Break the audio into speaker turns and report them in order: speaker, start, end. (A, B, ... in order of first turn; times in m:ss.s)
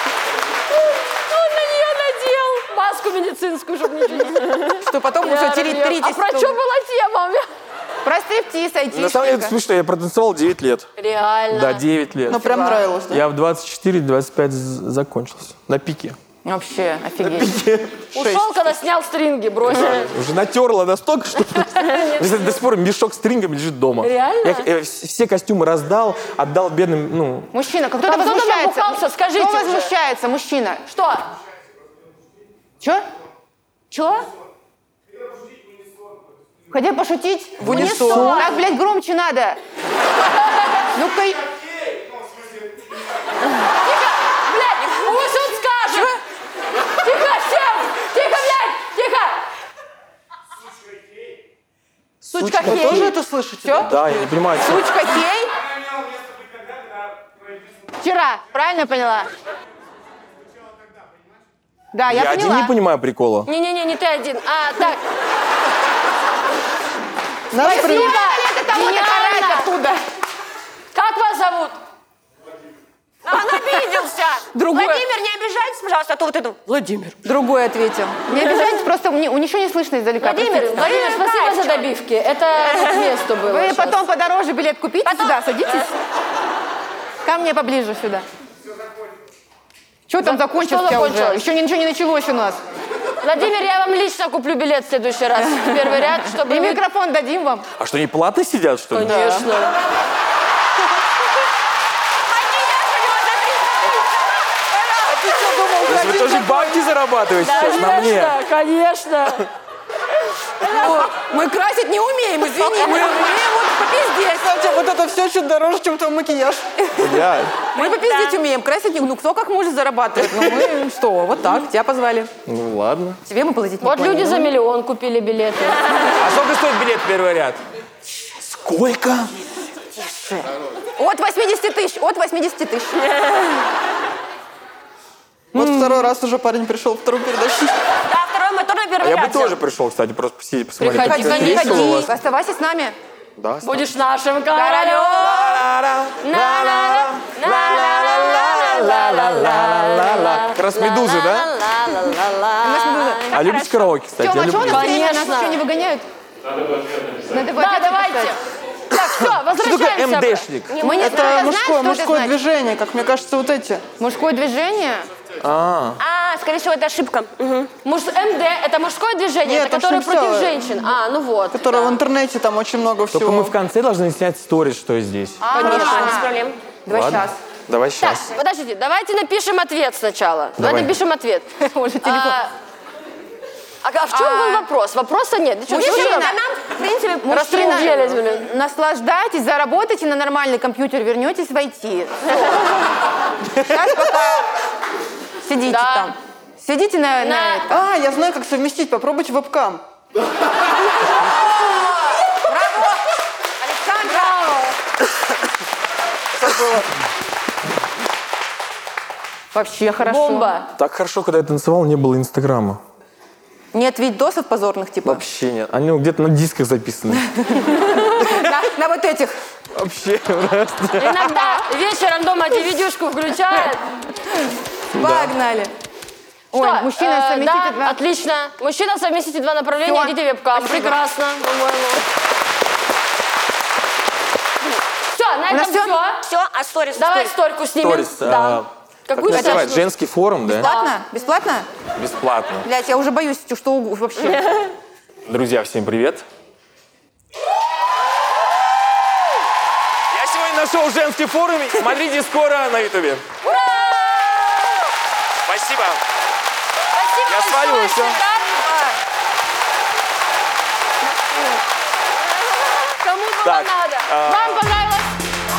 0:01.2-0:07.5 A
0:04.7-0:06.6 B
0:08.0-0:09.5 B
0:08.9-0:10.9 C
0:11.0-0:12.8 A
0:11.5-0:16.2 C
0:12.3-0:13.2 D
0:16.4-0:17.6 B
0:17.2-0:18.7 C
0:18.1-0:20.1 A
0:19.6-0:27.5 C
0:21.5-0:22.6 A
0:24.0-0:24.7 A
0:27.5-0:30.8 B
0:28.0-0:29.9 A
0:30.9-0:31.3 A
0:32.8-0:33.0 B
0:33.9-0:34.3 E
0:36.7-0:39.6 B
0:37.6-0:38.4 D
0:37.6-0:38.4 C
0:37.7-0:38.6 A
0:40.9-0:41.4 B
0:43.8-0:46.1 A
0:45.9-0:46.2 B
0:47.0-0:49.4 A
0:52.2-0:53.1 C
0:52.3-0:53.9 B
0:52.6-0:54.4 D
0:53.8-0:54.9 C
0:54.6-0:55.5 B
0:58.0-0:59.3 B
1:01.9-1:02.7 B
1:02.1-1:03.5 C
1:03.4-1:05.0 A
1:07.5-1:08.2 D
1:07.6-1:10.0 B
1:07.6-1:09.7 A
1:10.9-1:11.8 A
1:13.2-1:17.1 E
1:14.5-1:15.0 B
1:17.2-1:20.8 B
1:20.2-1:24.0 A
1:20.4-1:21.9 E
1:23.5-1:25.9 B
1:25.0-1:25.7 E
1:27.2-1:28.2 B
1:30.1-1:32.6 B
1:30.2-1:31.5 A
1:33.2-1:36.8 A
1:36.3-1:37.7 B
1:37.8-1:39.5 C
1:38.9-1:39.8 A
1:42.3-1:44.0 E
1:45.1-1:46.4 D
1:45.1-1:46.8 B
1:45.8-1:48.4 C
1:47.4-1:49.5 A
1:47.5-1:47.8 E
1:50.6-1:54.5 B
1:52.7-1:53.4 D
1:54.3-1:56.8 D
1:56.8-2:02.3 B
1:57.0-1:57.6 C
1:57.7-1:58.4 E
2:02.5-2:03.2 C
2:03.2-2:04.5 B
2:03.8-2:06.2 A
2:06.2-2:07.6 C
2:08.2-2:09.3 C
2:10.0-2:13.0 B
2:15.5-2:16.0 B
2:15.5-2:17.8 D
2:18.1-2:19.6 E
2:19.0-2:22.1 C
2:20.8-2:22.1 A
2:21.0-2:23.0 B
2:23.4-2:23.9 C
2:23.6-2:25.6 A
2:24.5-2:25.6 B
2:25.2-2:31.6 C
2:26.2-2:32.2 A
2:30.9-2:34.0 E
2:32.6-2:33.3 B
2:32.8-2:33.3 A
2:33.3-2:35.0 C
2:34.2-2:36.0 B
2:34.6-2:35.6 A
2:37.3-2:38.4 B
2:37.5-2:40.5 A
2:39.0-2:40.8 C
2:40.7-2:41.5 E
2:40.8-2:42.3 B
2:41.0-2:43.8 D
2:44.0-2:45.1 B
2:45.4-2:46.0 C
2:46.0-2:47.7 E
2:47.8-2:52.0 A
2:49.4-2:50.7 D
2:51.5-2:53.5 D
2:53.1-2:55.5 C
2:55.4-2:56.3 B
2:55.5-2:56.2 A
2:55.5-2:56.6 E
2:56.8-2:57.4 B
2:56.9-2:58.3 C
2:58.0-3:01.5 A
3:00.6-3:01.0 C
3:01.6-3:02.4 B
3:02.0-3:02.5 A
3:03.8-3:06.4 A
3:04.1-3:04.7 B
3:05.7-3:06.4 B
3:05.7-3:07.6 E
3:07.2-3:12.3 B
3:07.3-3:08.5 A
3:13.7-3:14.5 B
3:15.4-3:17.8 B
3:15.6-3:16.1 A
3:17.2-3:17.7 A
3:17.7-3:19.8 D
3:22.4-3:23.0 B
3:23.6-3:24.5 B
3:24.0-3:24.7 A
3:26.4-3:26.8 D
3:29.5-3:30.6 B
3:30.0-3:30.7 A
3:30.7-3:32.8 C
3:33.7-3:35.2 B
3:35.0-3:38.4 C
3:37.6-3:39.4 B
3:39.7-3:41.4 C
3:40.9-3:43.8 A
3:45.0-3:45.4 C
3:45.0-3:45.7 B
3:46.5-3:48.0 B
3:46.5-3:52.0 A
3:49.8-3:51.0 B
3:55.1-3:56.2 A
3:55.5-3:56.0 B
3:56.2-3:57.3 E
3:57.0-3:59.8 A
3:57.8-4:00.7 C
3:59.3-3:59.7 B
4:00.5-4:01.7 B
4:00.6-4:00.9 A
4:02.0-4:02.7 C
4:02.6-4:04.7 B
4:05.2-4:06.2 C
4:10.1-4:13.2 C
4:13.4-4:14.5 A
4:15.4-4:16.0 C
4:16.9-4:18.6 A
4:17.2-4:18.2 C
4:18.4-4:19.0 B
4:21.0-4:21.6 B
4:22.8-4:25.1 A
4:23.4-4:24.6 C